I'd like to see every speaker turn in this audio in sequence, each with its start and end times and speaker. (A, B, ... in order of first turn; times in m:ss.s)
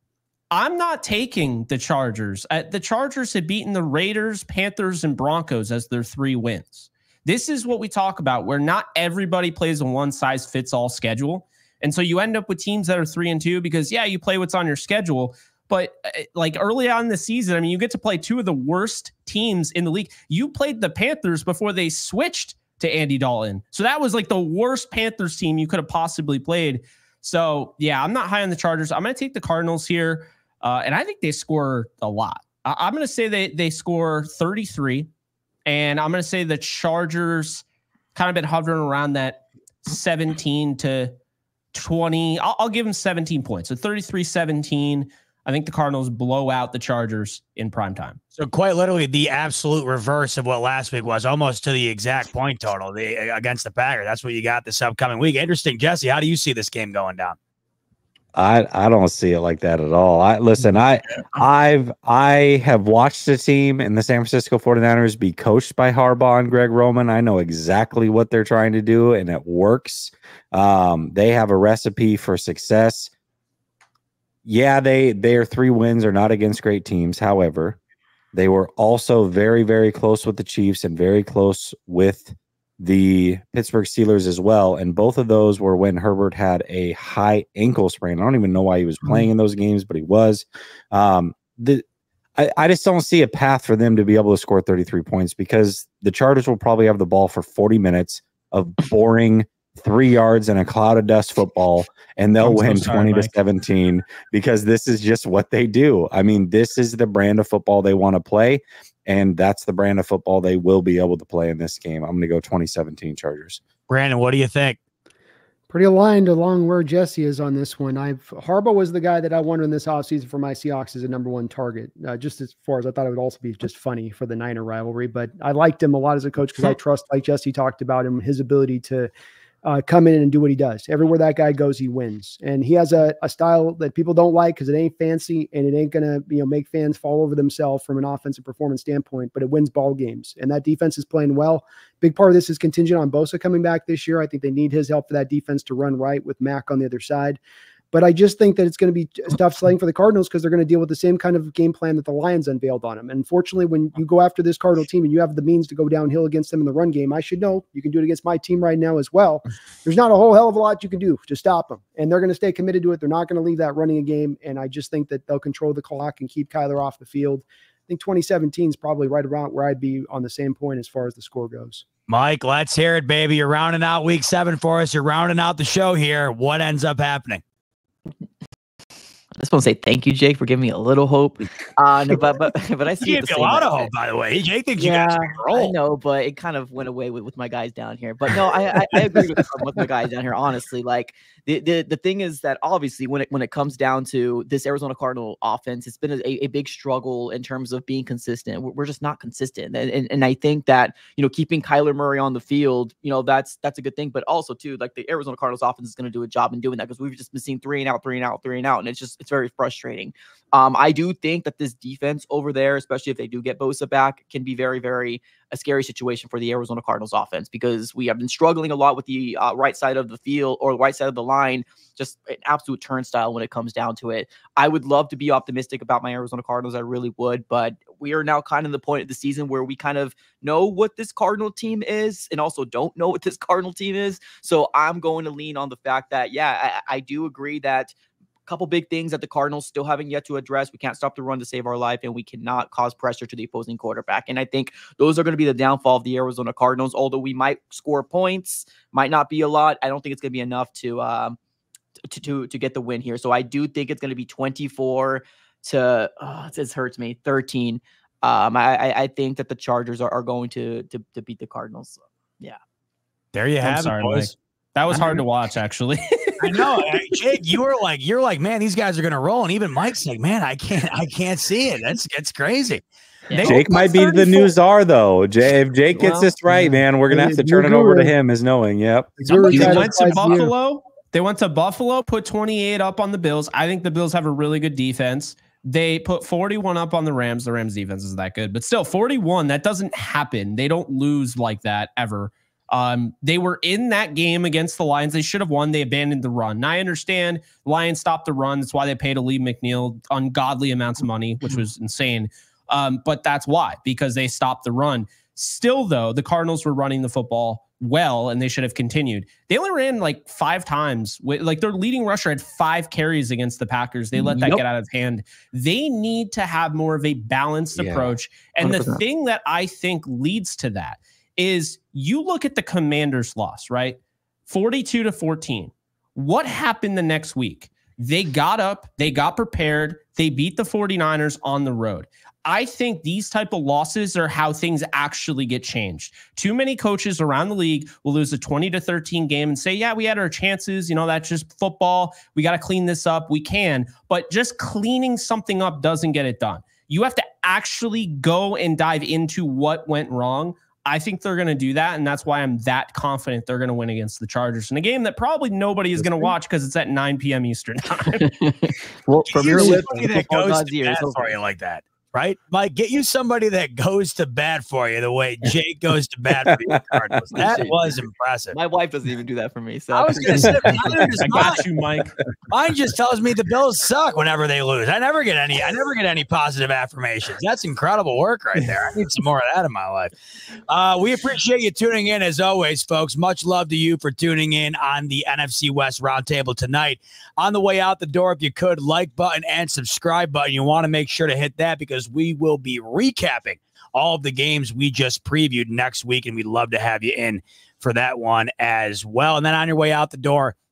0:00.5-0:35.1 A
0:35.6-0:41.1 A
0:41.7-0:48.2 A
0:48.4-0:57.4 B
0:58.4-1:13.1 C
1:14.4-1:17.8 C
1:18.3-1:31.8 C
1:32.4-1:53.6 C
1:42.4-1:43.3 A
1:53.9-1:54.8 B
1:55.7-2:09.1 D
2:09.6-2:27.4 D
2:27.9-2:51.8 D
2:52.1-2:57.4 B
2:59.4-3:03.9 E
3:03.0-3:05.7 B
3:04.8-3:57.9 E
3:58.5-4:11.4 E
4:12.1-4:22.6 E
4:23.3-4:24.3 B
4:23.6-4:26.4 A
4:26.4-4:32.8 B
4:33.3-4:33.6 E
4:33.3-4:34.5 A
4:33.4-4:39.2 C
4:36.0-4:36.5 E
4:37.1-4:38.1 D
4:39.2-4:40.5 D
4:39.3-5:58.5 A
4:39.3-4:40.4 E
5:14.1-5:14.6 E
5:17.8-5:18.2 C
5:18.6-5:19.0 E
5:58.2-6:01.3 E
5:59.2-6:08.6 B
6:06.7-6:07.2 C
6:07.4-6:07.9 E
6:08.5-6:11.5 E
6:09.9-6:11.6 B
6:11.2-6:12.2 A
6:12.5-6:20.1 B
6:20.7-6:40.6 B